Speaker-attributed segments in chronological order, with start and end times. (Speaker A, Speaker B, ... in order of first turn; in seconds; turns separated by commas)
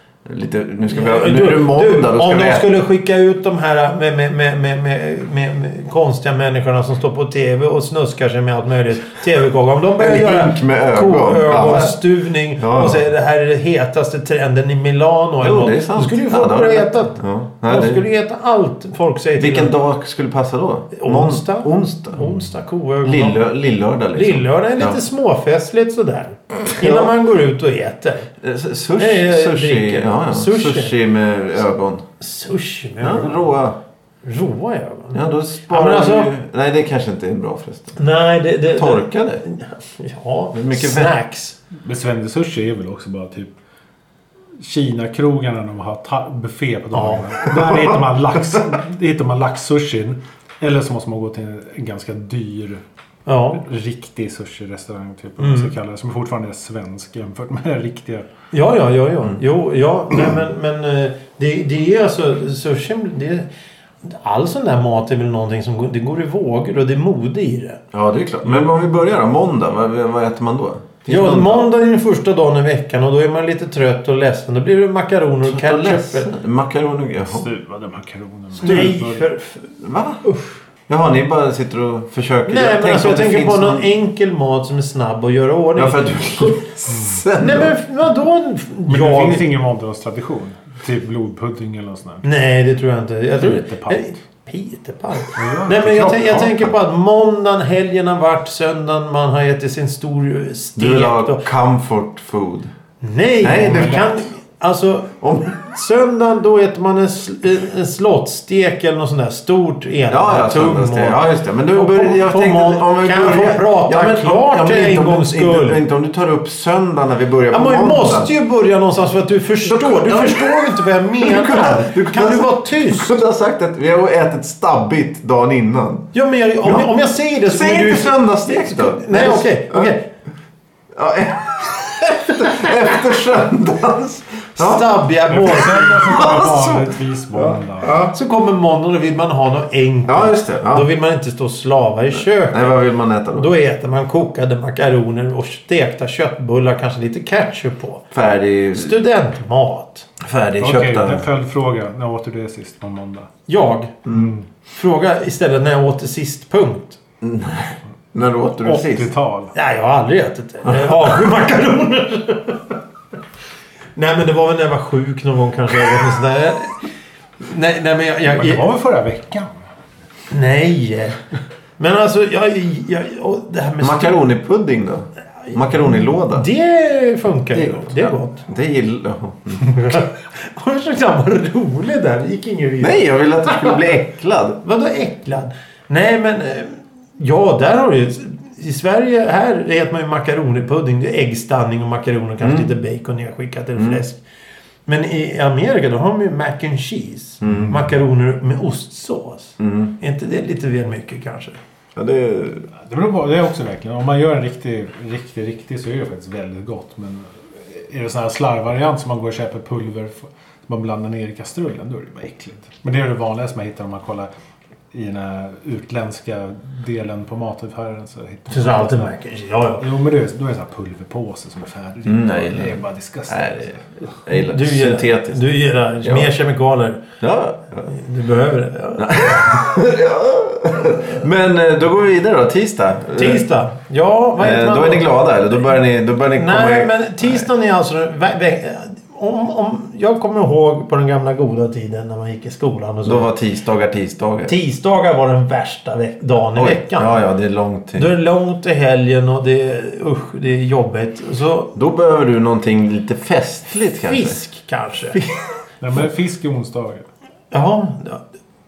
Speaker A: 0.2-2.7, Speaker B: 0.9-19.7, Speaker A: 10.0-12.0, Speaker A: 12.6-13.0, Speaker A: 15.4-18.1, Speaker A: 19.4-22.3, Speaker B: 20.9-23.4, Speaker A: 23.0-25.0, Speaker B: 24.1-28.3, Speaker A: 26.6-27.1, Speaker A: 28.4-32.1, Speaker B: 29.0-30.9, Speaker B: 32.2-33.5, Speaker A: 33.0-33.8, Speaker B: 34.2-36.3, Speaker A: 35.1-38.0, Speaker B: 38.0-41.6, Speaker A: 38.7-39.4, Speaker A: 40.5-41.1, Speaker C: 41.8-43.5, Speaker C: 44.6-52.8, Speaker B: 46.9-47.4, Speaker A: 47.5-48.0, Speaker B: 53.3-53.6, Speaker C: 53.5-58.3, Speaker B: 55.4-55.7, Speaker B: 58.5-63.5, Speaker B: 64.0-67.8, Speaker A: 67.9-71.7, Speaker B: 71.1-76.3, Speaker A: 75.4-77.5, Speaker C: 77.3-79.3, Speaker B: 78.6-79.7, Speaker A: 78.7-78.9, Speaker A: 79.8-80.2, Speaker B: 80.2-80.6, Speaker A: 80.9-83.9, Speaker B: 82.5-86.6, Speaker A: 85.8-87.7, Speaker C: 86.9-87.2, Speaker B: 87.4-89.5, Speaker C: 88.9-92.3, Speaker B: 92.2-101.5, Speaker C: 93.4-94.1, Speaker C: 95.3-96.5, Speaker A: 100.8-102.7, Speaker B: 103.0-115.8, Speaker A: 103.4-104.2, Speaker C: 103.5-104.0, Speaker A: 105.2-105.6, Speaker A: 110.1-118.3, Speaker B: 117.5-123.2, Speaker A: 119.6-126.1, Speaker B: 126.1-130.0, Speaker A: 126.6-126.9, Speaker A: 127.5-129.9, Speaker A: 130.9-134.9, Speaker B: 134.6-136.2, Speaker C: 135.3-137.9, Speaker A: 136.0-137.0, Speaker A: 137.8-138.1, Speaker B: 137.9-142.8, Speaker A: 140.1-140.9, Speaker A: 142.1-143.5, Speaker B: 143.3-148.1, Speaker A: 148.1-149.0, Speaker B: 148.7-150.1, Speaker A: 150.2-151.3, Speaker C: 150.6-153.3, Speaker B: 153.5-154.1, Speaker C: 154.1-154.4, Speaker B: 154.7-157.0, Speaker A: 157.2-159.1, Speaker C: 158.6-159.5, Speaker B: 159.6-162.8, Speaker A: 160.7-160.9, Speaker B: 164.0-166.9, Speaker B: 167.4-168.6, Speaker C: 168.3-169.6, Speaker B: 170.3-171.2, Speaker B: 171.8-174.2, Speaker A: 173.8-176.5, Speaker B: 175.5-178.4, Speaker A: 177.5-180.0, Speaker B: 179.6-183.9, Speaker A: 182.8-184.6, Speaker B: 184.6-194.2, Speaker A: 192.4-192.7, Speaker A: 193.8-194.0, Speaker B: 194.9-201.6, Speaker A: 197.4-197.8, Speaker A: 199.6-199.9, Speaker A: 201.9-202.7, Speaker C: 202.8-214.3, Speaker C: 214.9-219.1, Speaker B: 218.5-219.8, Speaker C: 219.8-223.9, Speaker A: 222.1-225.4, Speaker B: 224.3-227.0, Speaker A: 226.0-226.3, Speaker A: 227.2-227.9, Speaker B: 227.9-229.5, Speaker A: 229.0-233.4, Speaker B: 233.2-235.2, Speaker A: 234.4-237.5, Speaker B: 236.3-243.3, Speaker A: 243.1-244.5, Speaker B: 244.5-247.2, Speaker A: 246.6-248.1, Speaker B: 248.0-251.7, Speaker A: 251.8-254.4, Speaker B: 253.8-255.2, Speaker A: 255.1-255.4, Speaker C: 255.8-257.1, Speaker B: 257.5-258.2